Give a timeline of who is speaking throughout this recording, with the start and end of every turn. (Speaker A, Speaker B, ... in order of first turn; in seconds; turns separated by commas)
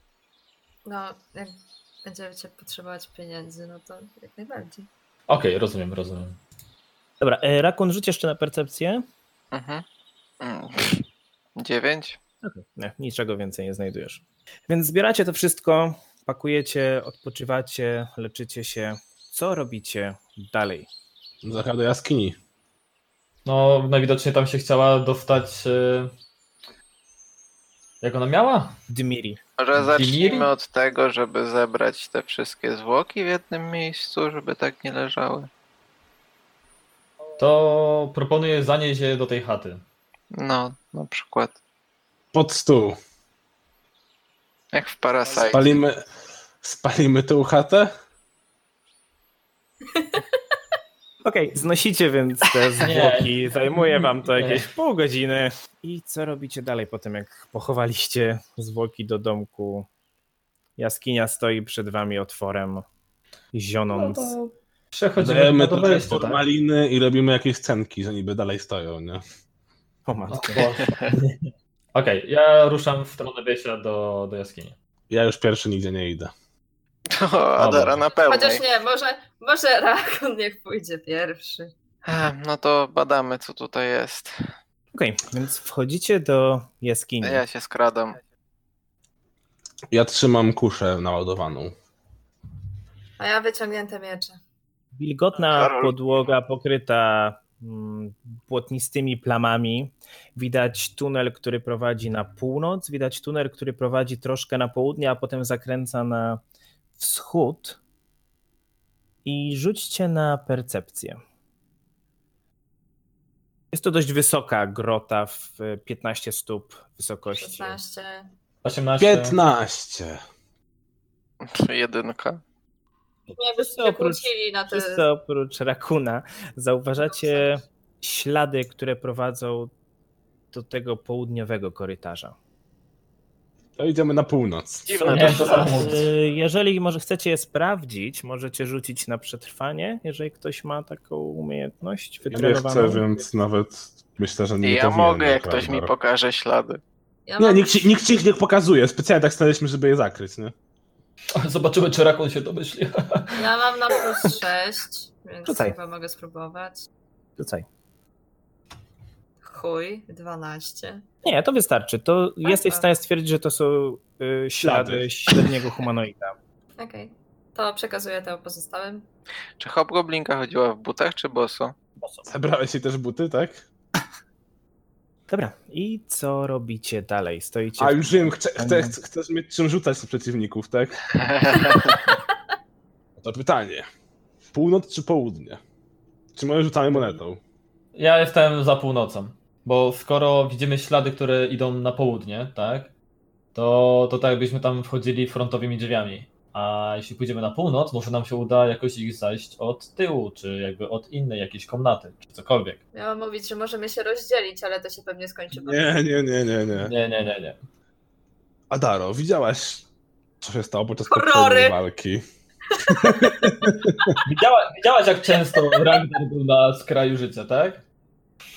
Speaker A: 0.8-4.9, Speaker B: 5.3-6.4, Speaker C: 7.2-9.1, Speaker D: 9.5-9.8, Speaker D: 10.4-11.0, Speaker D: 11.6-12.2, Speaker C: 12.4-20.9, Speaker E: 21.4-22.4, Speaker B: 23.5-26.1, Speaker B: 28.0-28.8, Speaker C: 28.9-29.4, Speaker D: 29.6-35.5, Speaker B: 29.8-30.5, Speaker B: 37.4-39.8, Speaker D: 40.3-41.6, Speaker E: 42.3-43.0, Speaker D: 44.7-45.8, Speaker E: 45.5-46.0, Speaker E: 46.6-47.9, Speaker A: 49.9-50.2, Speaker C: 51.2-59.9, Speaker B: 52.8-54.7, Speaker C: 60.8-62.9, Speaker C: 63.5-64.4, Speaker B: 64.0-64.3, Speaker B: 64.9-66.4, Speaker E: 65.2-69.2, Speaker C: 70.1-70.7, Speaker B: 70.3-71.4, Speaker B: 71.9-74.8, Speaker E: 75.1-76.3, Speaker D: 77.1-78.6, Speaker B: 77.6-78.0, Speaker A: 78.2-81.7, Speaker D: 82.1-84.3, Speaker C: 84.9-87.4, Speaker D: 87.2-88.2, Speaker E: 89.9-91.7, Speaker A: 93.2-94.4, Speaker C: 95.0-106.4, Speaker D: 95.5-96.0, Speaker C: 107.0-107.8, Speaker C: 109.2-111.2, Speaker C: 113.7-117.8, Speaker A: 117.3-118.3, Speaker B: 118.6-119.4, Speaker E: 119.0-120.2, Speaker D: 121.4-122.4, Speaker A: 123.3-125.0, Speaker C: 123.7-129.7, Speaker C: 130.5-132.3, Speaker E: 133.8-135.0, Speaker D: 134.9-135.9, Speaker B: 135.1-136.1, Speaker C: 135.8-143.0, Speaker E: 142.3-145.9, Speaker D: 144.6-146.8, Speaker A: 147.3-147.7, Speaker E: 147.4-150.5, Speaker B: 151.3-153.5, Speaker A: 153.4-156.9, Speaker C: 155.4-155.8, Speaker C: 157.4-157.7, Speaker A: 159.4-161.1, Speaker C: 161.2-166.3, Speaker A: 162.4-162.9, Speaker E: 164.6-165.1, Speaker A: 166.8-169.1, Speaker D: 169.6-171.7, Speaker B: 172.0-172.3, Speaker E: 172.3-173.6, Speaker C: 175.3-178.9, Speaker E: 177.8-181.0, Speaker D: 181.2-182.1, Speaker E: 183.2-183.8, Speaker E: 184.5-185.6, Speaker E: 186.3-187.4, Speaker B: 187.9-192.9, Speaker B: 193.5-202.8, Speaker A: 202.9-205.9, Speaker E: 205.5-206.9, Speaker B: 206.8-207.6, Speaker E: 208.7-209.8, Speaker E: 210.4-212.2, Speaker A: 211.1-211.8, Speaker A: 212.7-213.4, Speaker E: 212.8-214.2, Speaker B: 214.2-217.8, Speaker A: 215.3-215.9